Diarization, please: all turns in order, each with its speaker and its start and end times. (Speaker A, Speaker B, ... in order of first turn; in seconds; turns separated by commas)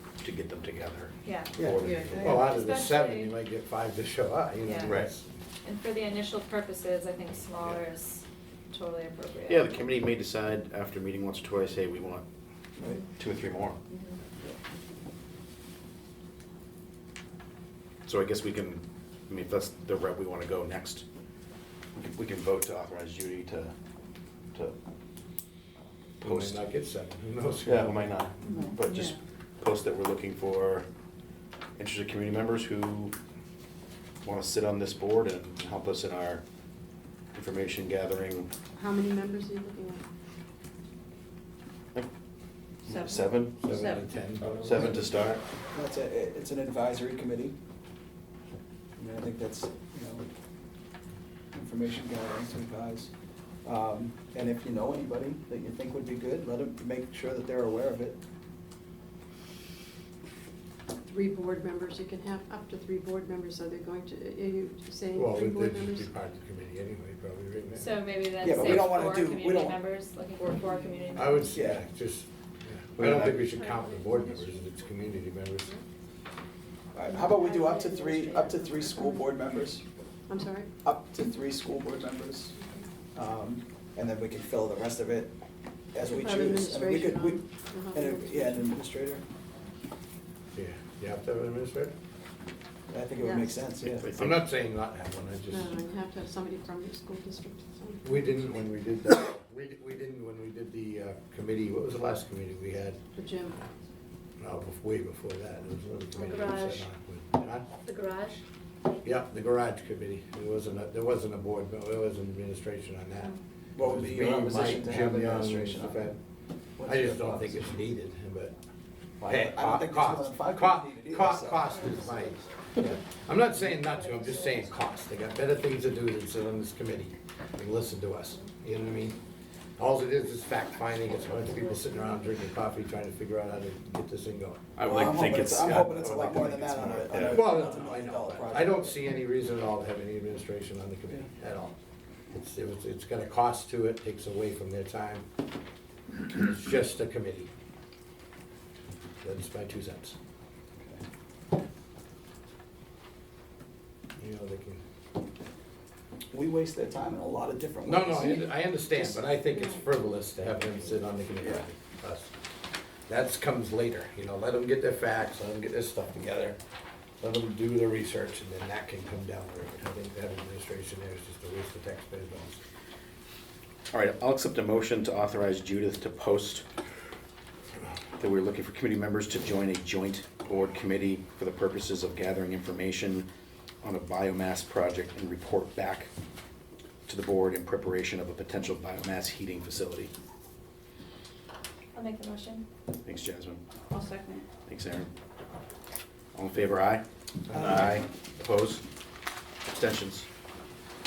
Speaker A: 0.2-2.4, Speaker B: 1.2-1.5, Speaker C: 1.6-2.2, Speaker D: 2.2-5.2, Speaker B: 2.2-3.4, Speaker B: 4.6-5.0, Speaker A: 4.8-5.1, Speaker B: 5.6-9.7, Speaker A: 9.5-12.2, Speaker A: 13.2-13.8, Speaker B: 13.9-14.2, Speaker A: 18.0-21.0, Speaker A: 21.9-23.7, Speaker D: 26.2-28.4, Speaker A: 26.2-26.7, Speaker A: 27.6-30.9, Speaker B: 28.5-29.1, Speaker A: 31.8-33.1, Speaker A: 34.2-36.4, Speaker A: 37.3-38.5, Speaker E: 38.8-40.0, Speaker A: 42.9-43.8, Speaker D: 43.6-45.0, Speaker A: 44.5-45.4, Speaker C: 45.7-47.5, Speaker C: 49.0-50.2, Speaker C: 51.5-53.1, Speaker C: 53.6-58.2, Speaker E: 61.1-66.1, Speaker D: 65.1-67.9, Speaker B: 67.8-71.5, Speaker C: 68.4-69.8, Speaker D: 68.5-68.9, Speaker D: 71.2-75.7, Speaker C: 71.4-71.8, Speaker A: 73.0-73.4, Speaker C: 76.9-79.8, Speaker E: 77.2-79.3, Speaker E: 80.3-80.7, Speaker C: 80.8-82.5, Speaker C: 83.1-85.3, Speaker C: 85.9-87.4, Speaker E: 86.2-88.7, Speaker C: 87.9-89.2, Speaker D: 90.5-91.9, Speaker C: 92.9-94.1, Speaker E: 93.2-93.5, Speaker A: 93.9-94.4, Speaker D: 94.2-95.7, Speaker E: 95.5-98.0, Speaker D: 98.0-103.0, Speaker E: 103.1-103.6, Speaker D: 104.4-107.7, Speaker B: 106.1-106.8, Speaker B: 107.8-108.4, Speaker D: 109.0-116.2, Speaker C: 113.8-116.1, Speaker C: 116.8-117.7, Speaker D: 116.8-118.5, Speaker C: 119.2-121.9, Speaker D: 119.3-129.2, Speaker B: 121.9-122.3, Speaker B: 123.9-125.0, Speaker D: 129.8-134.7, Speaker A: 134.8-137.5, Speaker C: 134.8-139.0, Speaker D: 137.2-141.7, Speaker D: 142.3-145.2, Speaker D: 146.2-147.5, Speaker D: 149.2-150.2, Speaker D: 154.2-154.8, Speaker C: 156.3-158.4, Speaker D: 157.8-162.3, Speaker C: 161.4-161.6, Speaker D: 163.1-166.6, Speaker D: 167.2-172.6, Speaker A: 173.9-176.6, Speaker A: 178.2-183.3, Speaker A: 183.8-186.1, Speaker A: 187.1-190.1, Speaker B: 191.9-192.6, Speaker A: 193.0-193.6, Speaker B: 193.9-194.5, Speaker A: 194.6-195.1, Speaker A: 196.3-198.8, Speaker C: 197.5-198.1, Speaker A: 199.7-200.2